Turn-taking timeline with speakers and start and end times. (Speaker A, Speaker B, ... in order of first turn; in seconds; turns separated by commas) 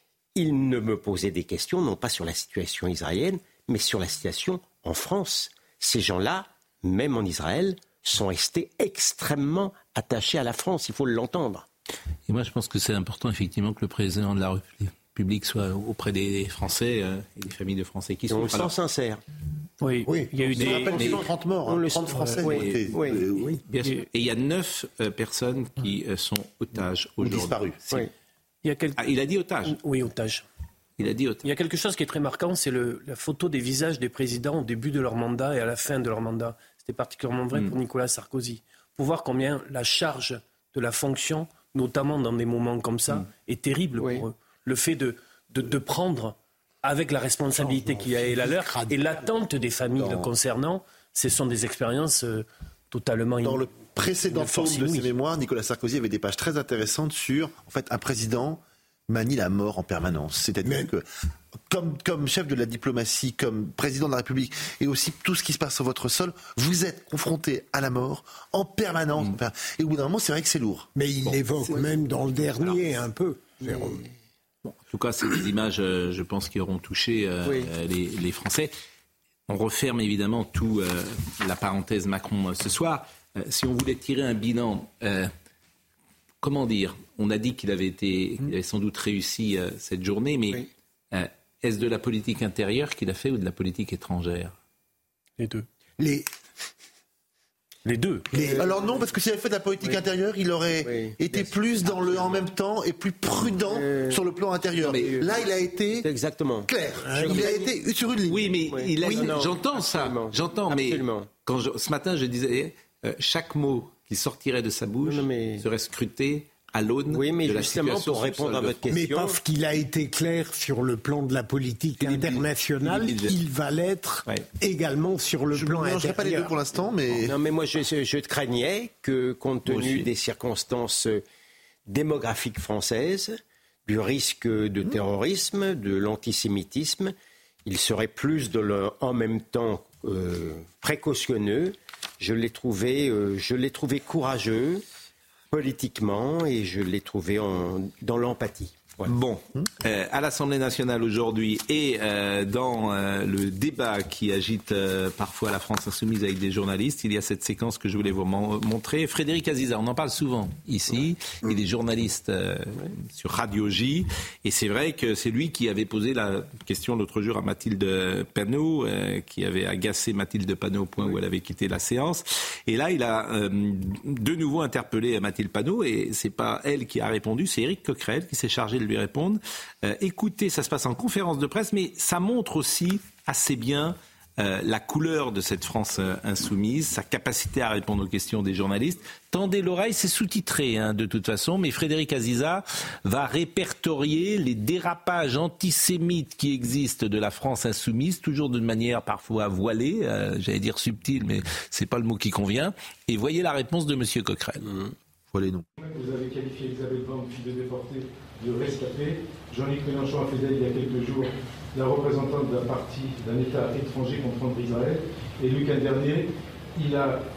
Speaker A: 0.3-11.7, Speaker B: 12.3-18.7, Speaker A: 18.3-19.2, Speaker C: 19.8-21.1, Speaker D: 20.0-20.4, Speaker E: 20.5-23.6, Speaker A: 20.6-23.5, Speaker B: 20.7-21.2, Speaker B: 22.4-22.8, Speaker B: 23.4-28.1, Speaker E: 27.2-27.8, Speaker C: 28.6-29.0, Speaker B: 29.0-29.8, Speaker C: 29.6-30.4, Speaker B: 31.0-31.4, Speaker C: 31.4-53.7, Speaker A: 44.0-44.2, Speaker D: 47.5-49.3, Speaker E: 53.4-61.0, Speaker C: 54.3-55.1, Speaker D: 60.6-60.9, Speaker E: 61.7-70.9, Speaker D: 70.9-74.0, Speaker B: 74.6-78.7, Speaker B: 79.5-85.3, Speaker B: 86.4-94.5, Speaker D: 96.0-96.3, Speaker C: 97.8-98.3, Speaker D: 98.3-98.7, Speaker A: 98.4-99.0, Speaker E: 98.6-106.1, Speaker A: 100.8-102.4, Speaker A: 103.4-104.2, Speaker B: 104.8-105.2, Speaker A: 106.0-107.7, Speaker E: 106.7-109.3, Speaker D: 106.9-107.6, Speaker B: 108.3-118.8, Speaker A: 108.7-111.3, Speaker A: 115.0-115.6, Speaker A: 117.1-119.4, Speaker D: 118.9-126.5, Speaker B: 122.0-123.4, Speaker E: 125.5-127.4, Speaker A: 127.1-131.2, Speaker B: 129.7-130.1, Speaker A: 131.9-137.1, Speaker A: 137.6-144.8, Speaker A: 145.5-149.1, Speaker B: 149.1-204.7, Speaker A: 204.7-204.9, Speaker E: 205.3-205.7, Speaker F: 205.8-217.2